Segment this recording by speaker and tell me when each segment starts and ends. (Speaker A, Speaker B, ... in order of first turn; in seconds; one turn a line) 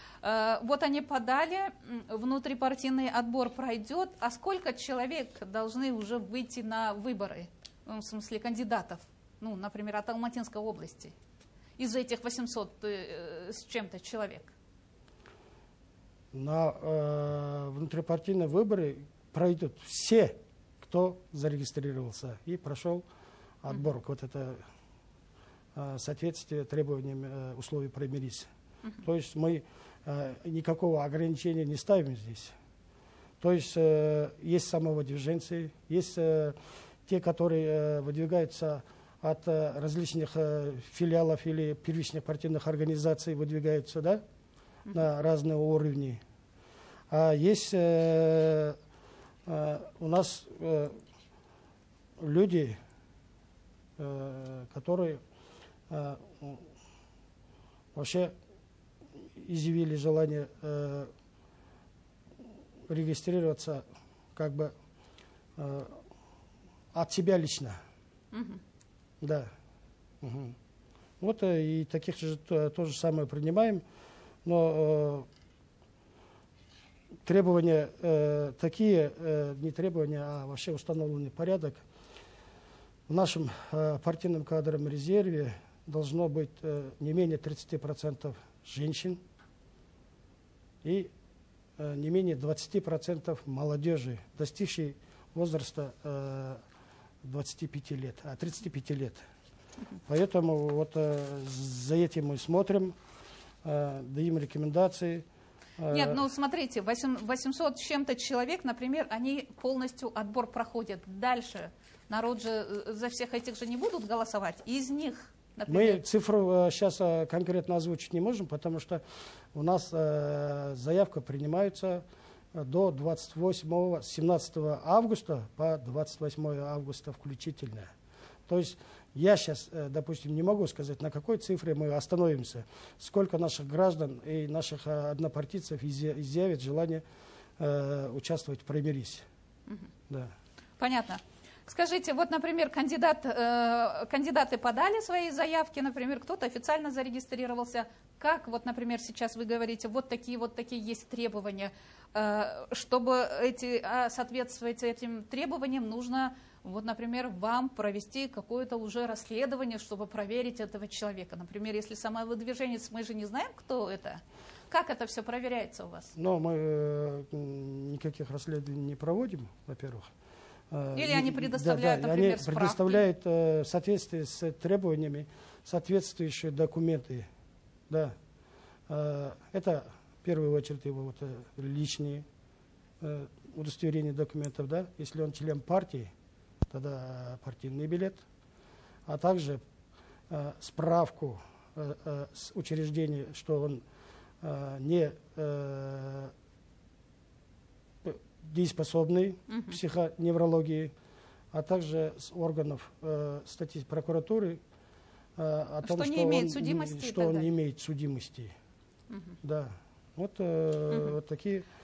Speaker A: 0.2-11.1
Speaker A: 11.8-14.5
Speaker B: 16.3-23.1
Speaker B: 23.6-24.6
Speaker B: 25.7-28.5
Speaker B: 29.0-32.5
Speaker B: 33.4-44.2
Speaker B: 44.9-46.2
Speaker B: 47.1-48.8
Speaker B: 49.5-50.9
Speaker B: 52.2-52.8
Speaker B: 54.0-55.2
Speaker B: 55.9-56.7
Speaker B: 57.9-58.3
Speaker B: 59.4-61.1
Speaker B: 62.9-64.7
Speaker B: 65.6-66.0
Speaker B: 66.9-67.8
Speaker A: 68.3-68.6
Speaker B: 69.2-69.5
Speaker B: 70.2-70.5
Speaker B: 71.2-73.8
Speaker B: 74.4-75.3
Speaker B: 77.2-81.8
Speaker B: 83.1-89.2
Speaker B: 90.8-91.1
Speaker B: 91.8-96.6
Speaker B: 97.2-99.2
Speaker B: 100.1-103.0
Speaker B: 103.6-105.2
Speaker B: 105.8-106.2
Speaker A: 105.9-116.0
Speaker B: 115.7-119.0
Speaker B: 119.5-127.9
Speaker B: 128.5-137.0
Speaker B: 137.6-139.2
Speaker A: 140.8-166.1
Speaker B: 166.1-170.1
Speaker B: 170.7-177.3
Speaker A: 170.9-173.0
Speaker B: 177.9-178.1
Speaker B: 178.9-182.2
Speaker B: 183.0-186.1
Speaker B: 186.7-188.2
Speaker B: 189.1-189.6
Speaker B: 190.3-193.8
Speaker B: 194.4-196.3
Speaker B: 198.0-200.9
Speaker A: 199.5-199.8
Speaker B: 201.5-204.6
Speaker B: 205.4-208.5
Speaker A: 205.8-207.5
Speaker B: 209.4-211.7